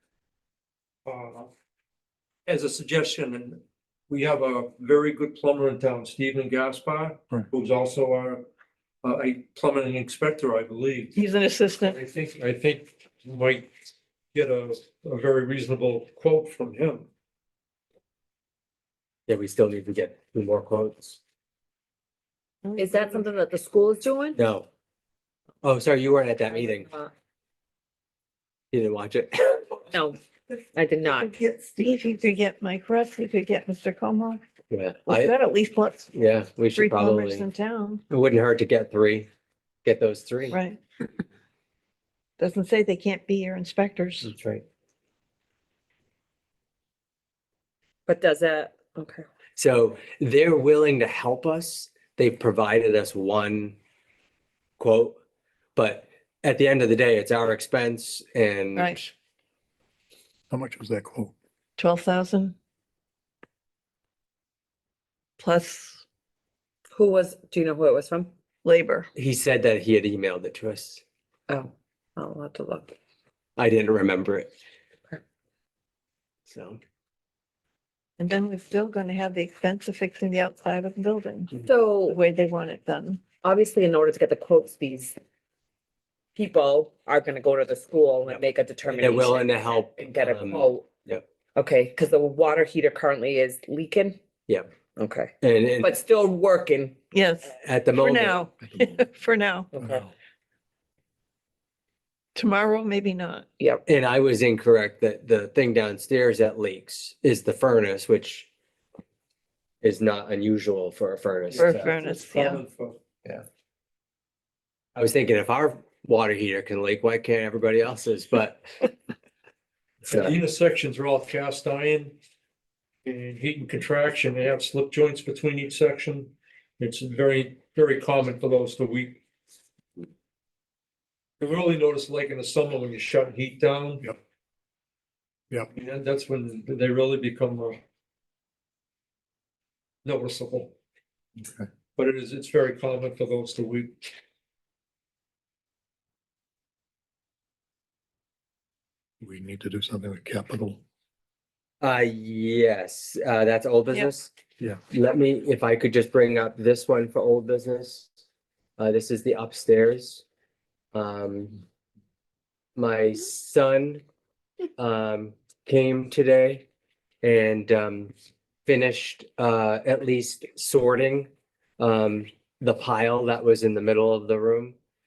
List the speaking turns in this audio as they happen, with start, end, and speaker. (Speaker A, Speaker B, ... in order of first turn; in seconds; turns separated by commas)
Speaker A: 1.1-1.5, Speaker A: 2.5-8.4, Speaker A: 9.0-11.2, Speaker B: 11.2-12.0, Speaker A: 11.8-13.7, Speaker A: 14.3-17.1, Speaker C: 19.3-21.2, Speaker B: 22.6-23.2, Speaker D: 22.8-24.4, Speaker C: 24.4-24.7, Speaker C: 25.6-26.9, Speaker D: 26.5-27.1, Speaker C: 28.7-29.9, Speaker D: 29.9-30.2, Speaker D: 30.7-31.3, Speaker B: 31.1-34.4, Speaker C: 34.7-35.3, Speaker B: 35.1-36.1, Speaker C: 36.1-37.5, Speaker B: 36.7-38.0, Speaker C: 38.1-39.3, Speaker C: 39.8-40.6, Speaker B: 40.5-40.8, Speaker B: 42.4-44.3, Speaker C: 44.2-44.6, Speaker D: 48.1-49.2, Speaker C: 49.5-53.8, Speaker C: 54.8-55.1, Speaker C: 55.8-59.1, Speaker E: 60.5-61.3, Speaker B: 61.8-62.5, Speaker B: 65.4-66.0, Speaker D: 66.9-68.3, Speaker B: 68.6-69.1, Speaker C: 69.2-71.0, Speaker D: 71.5-72.9, Speaker C: 73.6-74.5, Speaker C: 76.5-76.8, Speaker B: 78.2-81.5, Speaker D: 81.6-82.2, Speaker B: 82.1-83.2, Speaker D: 83.4-85.2, Speaker D: 86.3-90.8, Speaker C: 88.3-91.2, Speaker D: 91.5-94.2, Speaker D: 95.0-97.0, Speaker C: 95.4-95.9, Speaker B: 97.1-99.7, Speaker C: 97.6-98.4, Speaker D: 99.7-100.0, Speaker E: 99.8-100.1, Speaker B: 102.3-103.4, Speaker C: 103.8-108.5, Speaker C: 109.8-111.9, Speaker A: 111.5-113.0, Speaker B: 111.5-112.6, Speaker C: 114.9-118.9, Speaker A: 120.1-122.2, Speaker C: 120.1-120.3, Speaker A: 123.0-129.2, Speaker A: 131.4-134.1, Speaker A: 135.7-137.8, Speaker A: 140.0-140.7, Speaker A: 141.9-144.1, Speaker E: 149.2-150.8, Speaker C: 151.8-154.4, Speaker C: 154.9-158.1, Speaker C: 158.8-160.2, Speaker C: 160.9-161.6, Speaker C: 162.8-164.0, Speaker C: 164.8-166.6, Speaker C: 167.2-168.1, Speaker C: 168.7-174.7